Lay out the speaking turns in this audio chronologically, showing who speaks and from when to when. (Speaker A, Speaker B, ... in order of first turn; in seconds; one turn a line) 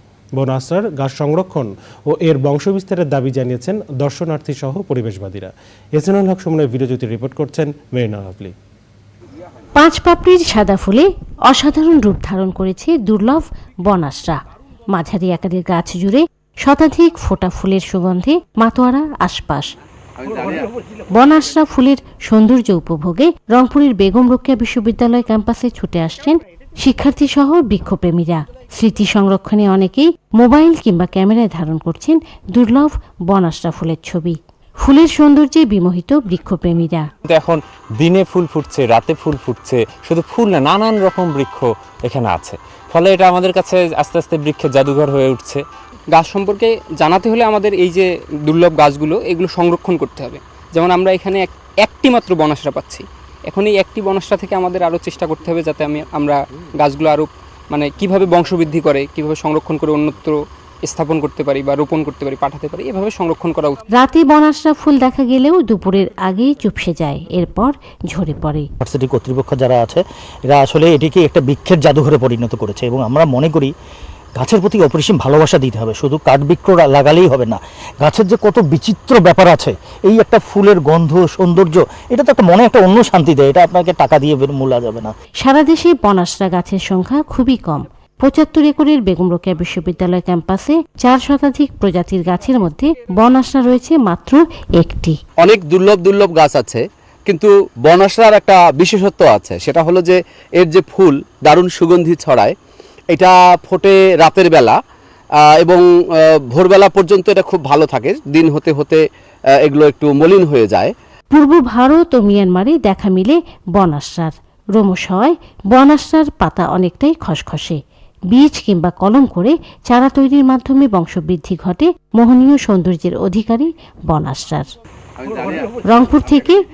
Speaker A: 0.4-8.5
Speaker B: 9.8-14.4
Speaker B: 14.9-19.7
Speaker C: 20.2-20.6
Speaker B: 21.1-37.1
Speaker D: 37.3-45.6
Speaker E: 46.1-63.8
Speaker B: 63.9-68.7
Speaker F: 68.8-73.7
Speaker F: 74.4-85.1
Speaker B: 85.4-95.2
Speaker C: 95.4-102.5
Speaker C: 103.1-104.8
Speaker C: 105.4-109.0
Speaker C: 109.6-110.9
Speaker B: 111.3-117.8
Speaker B: 118.3-124.7
Speaker C: 125.2-125.7
Speaker B: 125.8-126.6